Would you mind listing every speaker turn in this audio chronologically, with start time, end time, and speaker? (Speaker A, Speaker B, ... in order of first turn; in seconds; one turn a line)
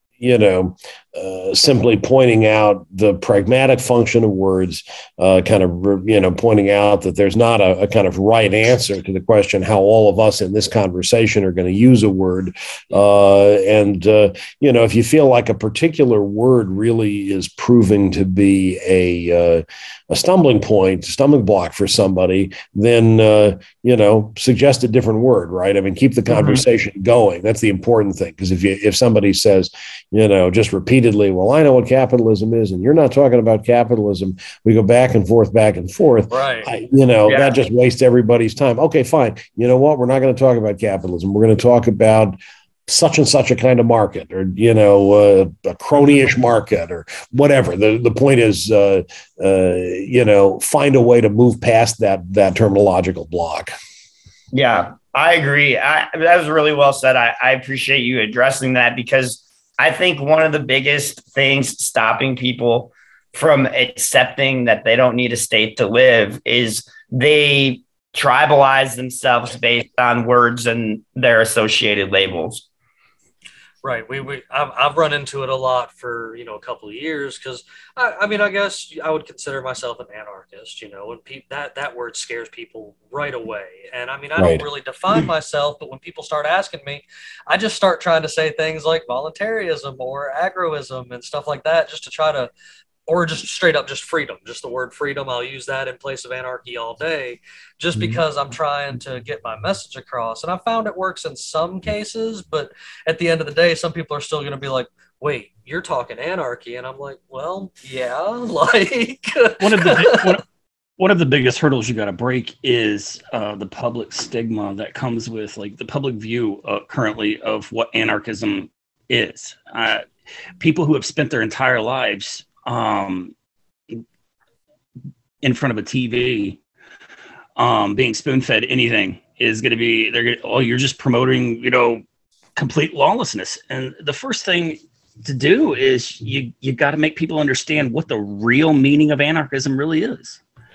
Speaker A: 0.2-53.7
Speaker B: 36.3-36.7
Speaker C: 37.2-37.6
Speaker C: 54.5-72.6
Speaker B: 73.8-92.5
Speaker A: 84.4-84.6
Speaker B: 93.1-110.4
Speaker A: 98.0-98.2
Speaker D: 109.6-110.4
Speaker D: 111.0-120.0
Speaker D: 120.6-123.3
Speaker D: 125.4-126.6
Speaker D: 127.6-132.0
Speaker D: 132.6-140.4